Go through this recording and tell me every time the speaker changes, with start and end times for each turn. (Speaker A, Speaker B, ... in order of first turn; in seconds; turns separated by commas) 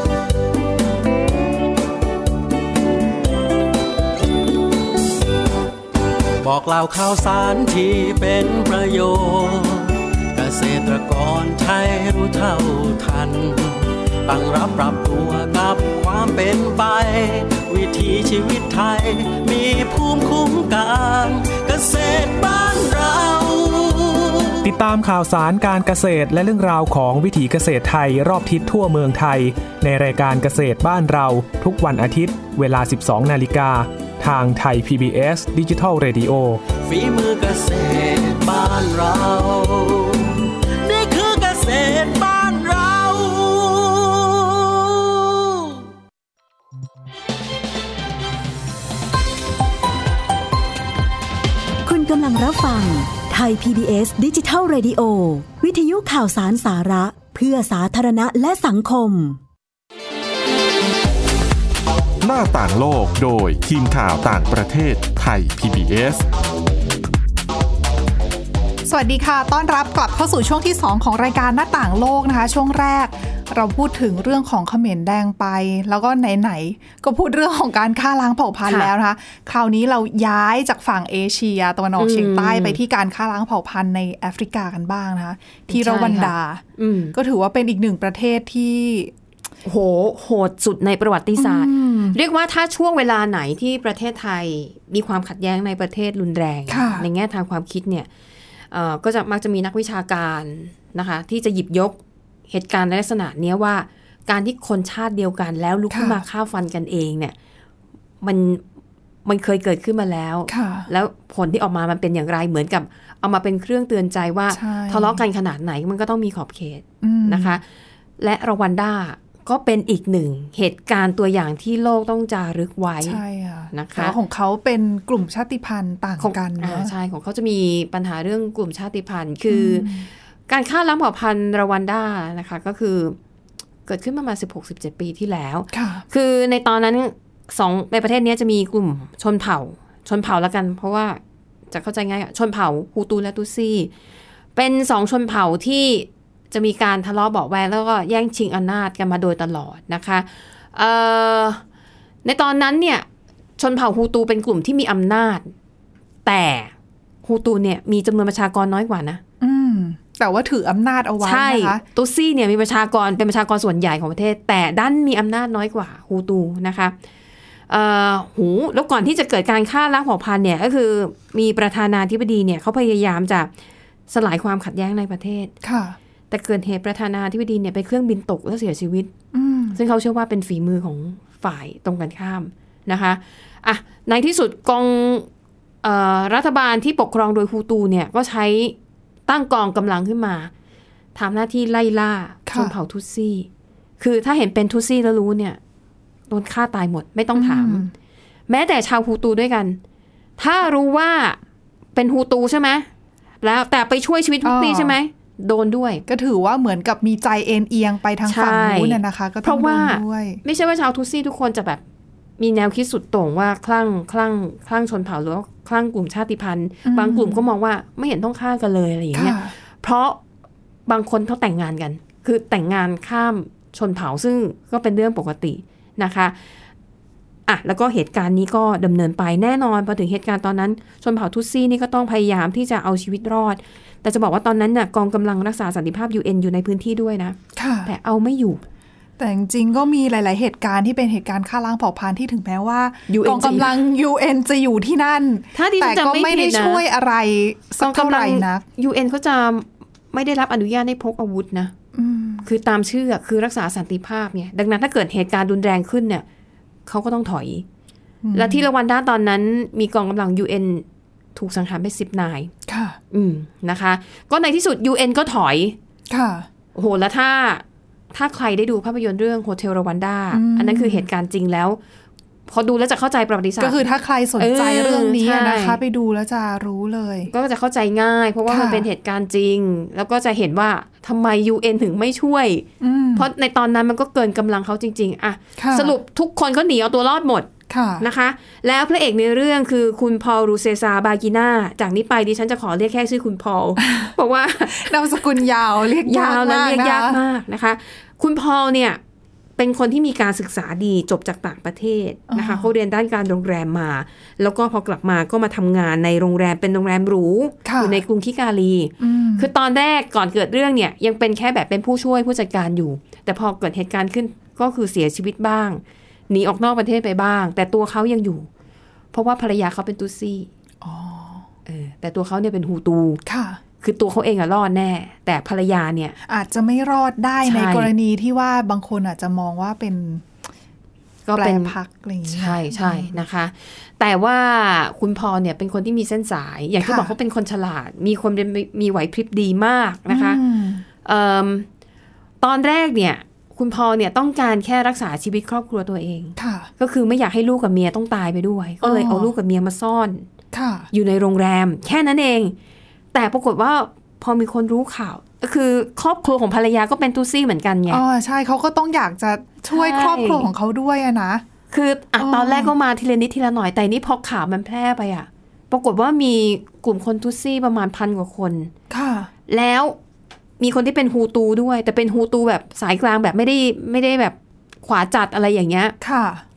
Speaker A: 6.4-24.7, Speaker B: 24.6-36.6, Speaker A: 36.8-45.7, Speaker C: 51.8-59.4, Speaker D: 62.2-66.2, Speaker E: 68.9-89.1, Speaker F: 82.0-82.8, Speaker F: 85.7-87.2, Speaker F: 89.6-98.1, Speaker E: 91.4-92.2, Speaker E: 96.7-97.1, Speaker F: 98.7-102.0, Speaker F: 102.5-107.3, Speaker E: 105.9-106.2, Speaker F: 108.2-108.6, Speaker F: 109.2-117.6, Speaker E: 110.5-110.9, Speaker E: 114.5-115.2, Speaker E: 117.0-117.6, Speaker F: 118.2-123.2, Speaker E: 123.0-126.9, Speaker F: 123.7-124.2, Speaker F: 126.2-129.9, Speaker E: 129.5-130.1, Speaker F: 130.5-133.2, Speaker F: 133.9-141.2, Speaker E: 135.7-136.1, Speaker F: 141.7-143.9, Speaker F: 144.6-151.6, Speaker F: 152.2-153.1, Speaker F: 153.6-155.5, Speaker F: 156.2-156.7, Speaker F: 157.2-159.2, Speaker E: 159.4-161.8, Speaker F: 161.2-166.9, Speaker F: 167.7-173.5, Speaker F: 174.1-175.5, Speaker E: 175.6-176.0, Speaker F: 176.3-179.1, Speaker E: 179.3-179.8, Speaker F: 179.7-185.3, Speaker F: 185.8-188.8, Speaker F: 189.3-190.5, Speaker F: 191.2-193.5, Speaker E: 192.5-192.8, Speaker F: 194.0-195.6, Speaker F: 196.3-197.9, Speaker E: 197.3-197.9, Speaker F: 198.5-199.8, Speaker F: 200.4-201.4, Speaker F: 201.9-202.9, Speaker F: 203.4-206.0, Speaker E: 204.4-205.0, Speaker E: 206.1-210.4, Speaker F: 208.3-211.8, Speaker F: 212.4-220.2, Speaker E: 216.8-217.4, Speaker E: 219.1-219.5, Speaker F: 220.9-226.3, Speaker F: 227.5-238.6, Speaker E: 237.6-237.9, Speaker E: 239.2-248.7, Speaker F: 243.1-243.8, Speaker F: 245.5-246.8, Speaker F: 247.8-251.7, Speaker E: 251.9-252.5, Speaker F: 252.4-256.2, Speaker F: 256.9-257.6, Speaker E: 258.2-258.7, Speaker F: 258.4-262.5, Speaker E: 262.7-263.0, Speaker F: 263.1-265.8, Speaker E: 266.1-266.5, Speaker F: 266.8-271.8, Speaker E: 270.3-271.1, Speaker F: 272.5-273.8, Speaker E: 273.6-277.3, Speaker F: 274.4-275.8, Speaker F: 277.3-287.5, Speaker E: 278.5-278.9, Speaker E: 282.8-283.3, Speaker E: 285.6-286.0, Speaker E: 287.7-288.1, Speaker F: 288.0-294.9, Speaker E: 293.8-294.1, Speaker E: 294.6-297.2, Speaker F: 296.0-299.0, Speaker F: 299.6-318.5, Speaker E: 302.3-302.7, Speaker E: 307.6-308.0, Speaker E: 309.0-309.5, Speaker F: 319.1-320.5, Speaker E: 320.8-321.5, Speaker F: 321.7-323.2, Speaker E: 323.3-323.6, Speaker F: 323.8-326.2, Speaker E: 326.3-330.4, Speaker F: 327.4-327.9, Speaker F: 331.2-331.8, Speaker E: 331.4-333.2, Speaker F: 332.3-340.4, Speaker E: 336.8-337.1, Speaker E: 340.1-340.9, Speaker F: 341.0-341.7, Speaker F: 342.4-350.3, Speaker E: 346.4-346.7, Speaker E: 348.8-349.3, Speaker E: 350.5-350.9, Speaker F: 350.9-352.6, Speaker F: 353.1-358.0, Speaker E: 357.9-361.4, Speaker F: 359.7-360.5, Speaker F: 361.7-368.7, Speaker E: 362.2-362.7, Speaker E: 368.9-369.3, Speaker F: 369.5-370.0, Speaker F: 370.6-375.9, Speaker E: 376.0-376.4